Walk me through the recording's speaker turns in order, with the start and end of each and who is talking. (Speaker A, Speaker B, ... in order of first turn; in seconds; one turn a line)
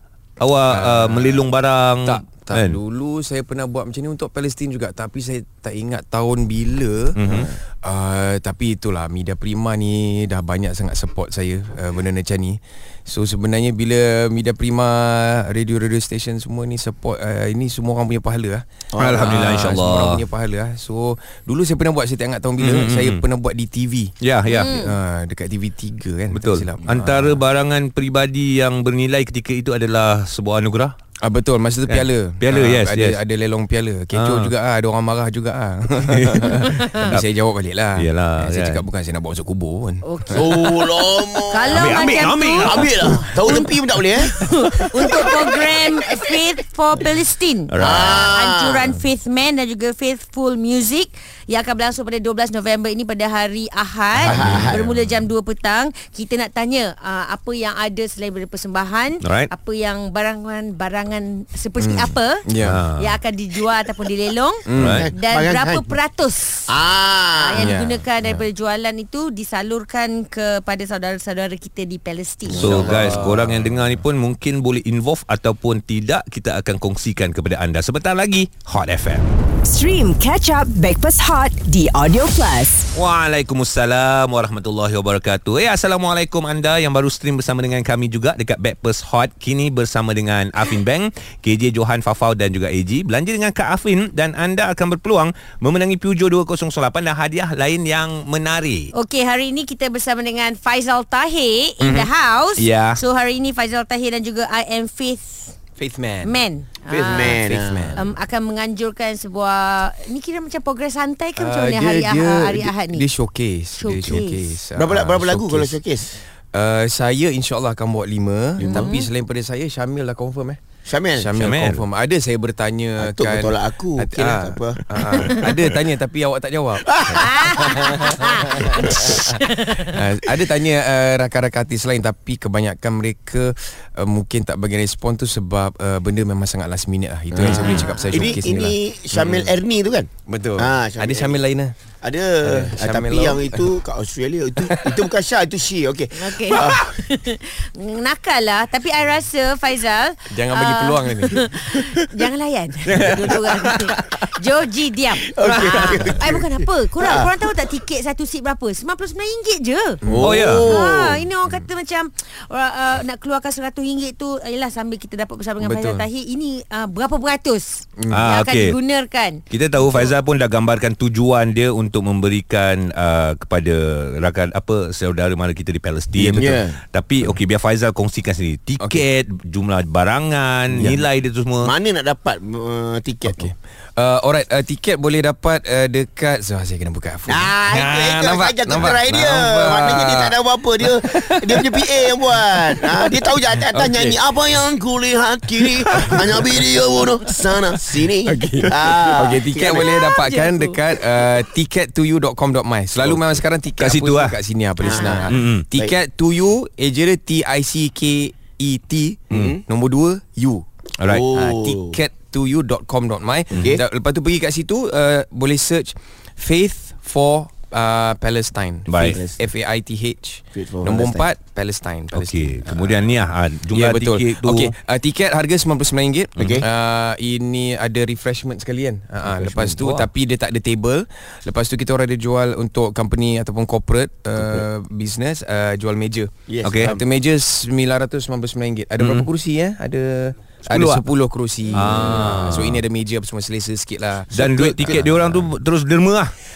Speaker A: 0.4-2.8
Speaker B: 0.7-1.5
Speaker B: 2.0-27.4
Speaker A: 7.2-7.5
Speaker C: 18.9-19.3
Speaker A: 18.9-20.2
Speaker A: 22.6-23.2
Speaker A: 24.2-24.8
Speaker D: 24.5-24.9
Speaker A: 26.3-30.9
Speaker B: 31.2-40.6
Speaker A: 31.9-33.2
Speaker A: 34.1-34.5
Speaker A: 36.1-37.3
Speaker D: 36.6-37.0
Speaker A: 38.0-38.8
Speaker D: 40.0-40.8
Speaker C: 40.3-44.4
Speaker D: 41.5-66.7
Speaker A: 41.7-43.3
Speaker A: 47.7-48.3
Speaker C: 47.8-49.0
Speaker C: 54.2-54.9
Speaker A: 54.2-54.8
Speaker A: 59.2-59.5
Speaker B: 61.8-62.8
Speaker A: 62.6-63.2
Speaker B: 64.7-65.1
Speaker A: 64.7-65.1
Speaker C: 64.9-65.9
Speaker C: 66.7-67.7
Speaker D: 67.4-72.7
Speaker B: 67.5-68.5
Speaker C: 72.5-73.4
Speaker B: 72.5-74.0
Speaker A: 72.6-79.3
Speaker E: 79.7-82.9
Speaker A: 82.9-98.9
Speaker D: 98.9-105.5
Speaker A: 101.8-103.0
Speaker B: 105.8-106.5
Speaker D: 106.2-107.5
Speaker C: 106.9-108.0
Speaker B: 107.1-108.1
Speaker D: 108.0-113.1
Speaker B: 111.4-115.8
Speaker D: 113.8-114.6
Speaker C: 114.8-116.2
Speaker B: 116.5-120.6
Speaker C: 118.6-119.0
Speaker D: 118.7-119.1
Speaker C: 120.9-121.4
Speaker B: 121.1-139.5
Speaker A: 121.4-121.8
Speaker C: 123.0-125.7
Speaker C: 126.8-127.8
Speaker D: 127.2-130.0
Speaker C: 128.8-129.2
Speaker C: 137.3-141.4
Speaker D: 137.5-138.4
Speaker B: 140.3-141.8
Speaker C: 142.0-146.9
Speaker B: 142.4-143.7
Speaker B: 144.6-145.0
Speaker D: 146.2-160.0
Speaker B: 150.3-151.6
Speaker B: 152.9-154.0
Speaker C: 155.3-157.3
Speaker B: 155.4-156.2
Speaker B: 160.0-160.6
Speaker C: 160.1-161.2
Speaker A: 160.2-160.7
Speaker D: 160.6-170.1
Speaker B: 165.6-166.1
Speaker B: 168.0-168.3
Speaker A: 168.1-168.8
Speaker A: 169.5-181.7
Speaker C: 176.2-176.8
Speaker B: 178.8-179.1
Speaker B: 180.7-181.1
Speaker C: 181.6-183.5
Speaker B: 183.3-191.9
Speaker C: 187.3-200.0
Speaker B: 192.7-193.1
Speaker B: 193.7-194.2
Speaker B: 195.9-196.8
Speaker B: 198.3-210.7
Speaker D: 199.9-200.8
Speaker A: 203.0-204.4
Speaker D: 204.8-205.3
Speaker C: 204.8-205.9
Speaker A: 205.3-205.7
Speaker C: 209.3-209.6
Speaker A: 211.0-211.3
Speaker C: 211.1-212.0
Speaker B: 211.3-223.1
Speaker A: 218.9-219.2
Speaker C: 219.1-219.4
Speaker C: 220.6-221.3
Speaker A: 222.1-224.7
Speaker B: 223.7-245.5
Speaker A: 226.4-226.6
Speaker C: 226.4-226.7
Speaker A: 229.2-230.1
Speaker C: 234.4-234.7
Speaker C: 236.5-237.0
Speaker A: 236.6-237.0
Speaker A: 239.0-239.3
Speaker A: 240.7-241.1
Speaker A: 241.7-242.8
Speaker C: 241.8-242.3
Speaker A: 244.3-246.3